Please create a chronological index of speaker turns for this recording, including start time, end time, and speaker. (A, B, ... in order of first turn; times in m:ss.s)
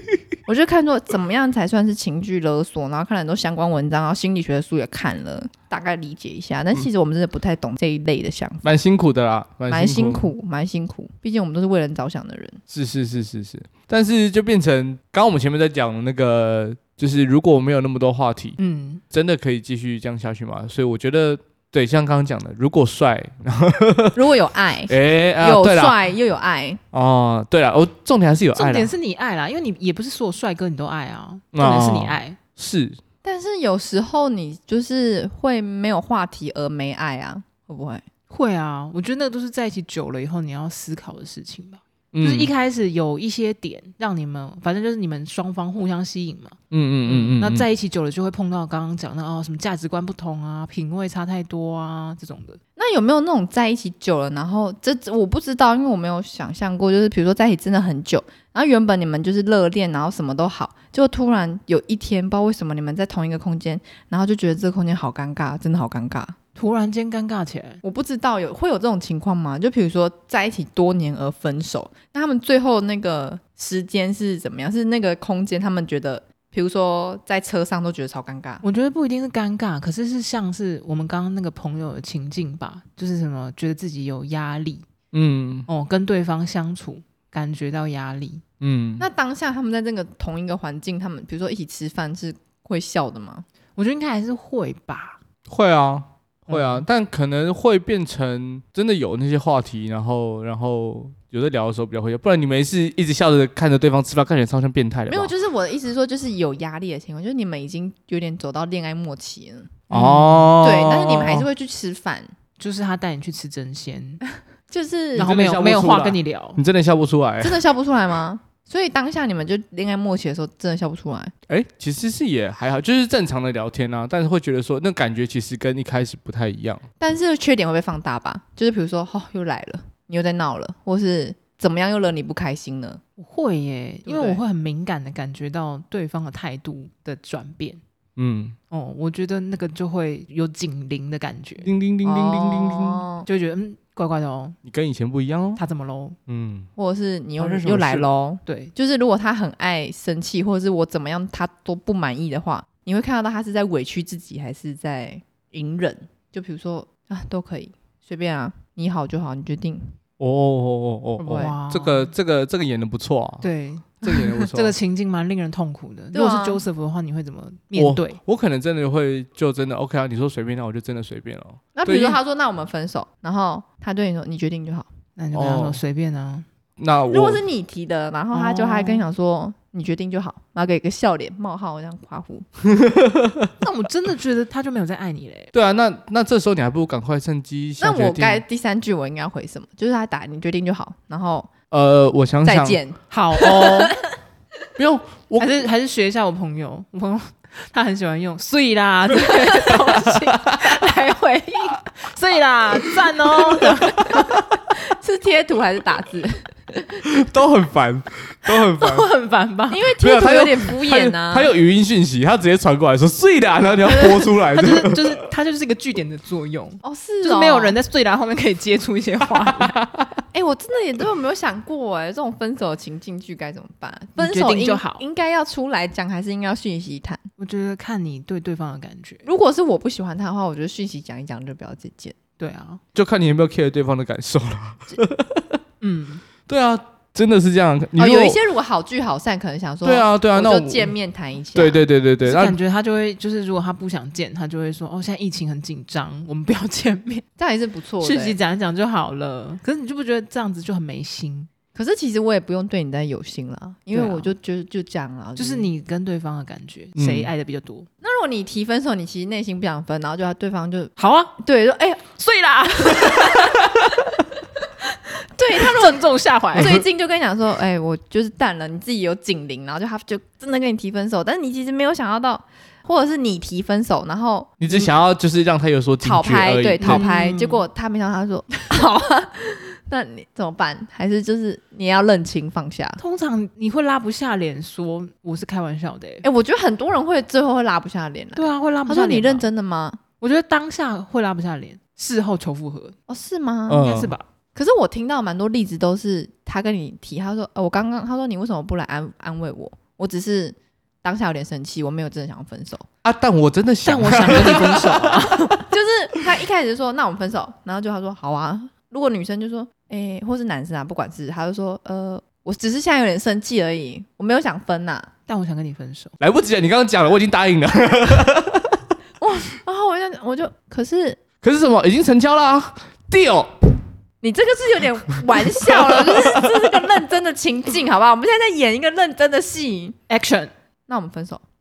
0:00.4-0:08.7 A
0:08.6-0:10.3 B
0:09.7-0:12.6 A
0:12.7-0:18.6 B
0:18.6-0:19.0 C
0:19.1-0:24.2 B
0:24.1-0:26.8 A
0:24.9-0:25.9 B
0:26.9-0:28.9 B
0:28.5-0:32.4 C
0:31.5-0:33.0 B
0:33.2-0:38.0 A
0:38.3-0:52.6 C
0:42.1-0:42.5 B
0:46.7-0:47.7 B
0:52.8-1:06.4 A
1:06.6-1:07.8 C
1:07.8-1:18.6 A
1:18.6-1:24.8 C
1:25.1-1:25.7 B
1:25.7-1:28.4 C
1:28.6-1:29.0 B
1:29.0-1:33.4 A
1:33.8-1:35.2 C
1:35.5-1:45.3 B
1:36.5-1:36.8 C
1:45.1-1:49.9 A
1:49.9-1:51.5 B
1:49.9-1:50.5 C
1:50.6-1:52.3 A
1:52.6-1:54.2 C
1:54.7-1:55.3 A
1:55.2-1:56.6 C
1:55.2-1:57.6 B
1:57.4-2:01.3 A
2:01.5-2:06.8 B
2:07.0-2:13.0 A
2:13.2-2:17.8 C
2:14.0-2:14.4 A
2:18.2-2:18.6 B
2:18.7-2:21.7 C
2:21.6-2:23.0 B
2:22.0-2:23.2 A
2:23.2-2:24.6 C
2:24.6-2:25.6 B
2:25.6-2:26.2 C
2:26.3-2:26.7 B
2:26.8-2:39.9 A
2:27.4-2:28.1 B
2:28.4-2:28.7 C
2:40.2-2:43.5 B
2:41.2-2:42.1 C
2:41.3-2:41.5 A
2:43.4-2:48.2 C
2:44.0-2:44.8 B
2:46.1-2:46.6 A
2:47.8-2:52.2 B
2:51.7-2:54.9 A
2:55.2-2:56.4 C
2:55.3-2:55.8 B
2:56.8-2:57.4 B
2:57.1-3:02.5 A
2:58.3-2:59.1 C
3:02.7-3:03.5 B
3:03.6-3:05.5 C
3:05.5-3:08.4 B
3:07.8-3:11.5 A
3:11.7-3:12.8 B
3:12.4-3:14.0 A
3:13.1-3:13.9 C
3:14.8-3:15.5 B
3:15.4-3:24.3 C
3:19.9-3:20.6 B
3:23.6-3:24.3 B
3:24.7-3:27.0 A
3:27.0-3:29.1 B
3:28.8-3:29.8 C
3:29.7-3:31.5 A
3:30.0-3:35.2 B
3:33.9-3:39.8 C
3:36.8-3:37.8 A
3:39.6-3:40.1 B
3:40.3-3:47.2 A
3:44.2-3:45.0 C
3:47.4-3:49.2 C
3:49.2-3:52.1 A
3:52.4-3:52.8 C
3:52.9-3:55.6 B
3:55.8-3:56.2 C
3:56.5-3:58.4 B
3:58.0-4:01.8 A
3:59.8-4:00.9 B
4:01.5-4:02.6 B
4:02.2-4:07.2 C
4:07.4-4:08.4 A
4:08.0-4:11.5 C
4:11.7-4:15.7 A
4:13.9-4:14.3 C
4:15.4-4:17.9 C
4:17.0-4:17.3 B
4:18.0-4:23.7 A
4:21.0-4:21.3 C
4:22.2-4:23.6 C
4:25.4-4:34.9 A
4:25.5-4:26.8 C
4:34.6-4:37.0 B
4:36.0-4:43.0 A
4:36.8-4:37.6 C
4:43.0-4:46.2 C
4:46.2-4:50.0 A
4:48.4-4:49.4 C
4:50.2-4:53.0 C
4:53.1-4:53.9 A
4:53.7-4:54.1 B
4:53.8-4:54.2 C
4:54.5-5:02.8 A
5:03.0-5:05.3 B
5:03.8-5:05.6 C
5:05.6-5:15.1 A
5:15.3-5:16.1 C
5:16.2-5:18.8 B
5:19.2-5:21.2 A
5:21.4-5:23.5 B
5:24.2-5:30.0 A
5:25.6-5:26.5 B
5:30.1-5:30.5 C
5:30.9-5:31.4 A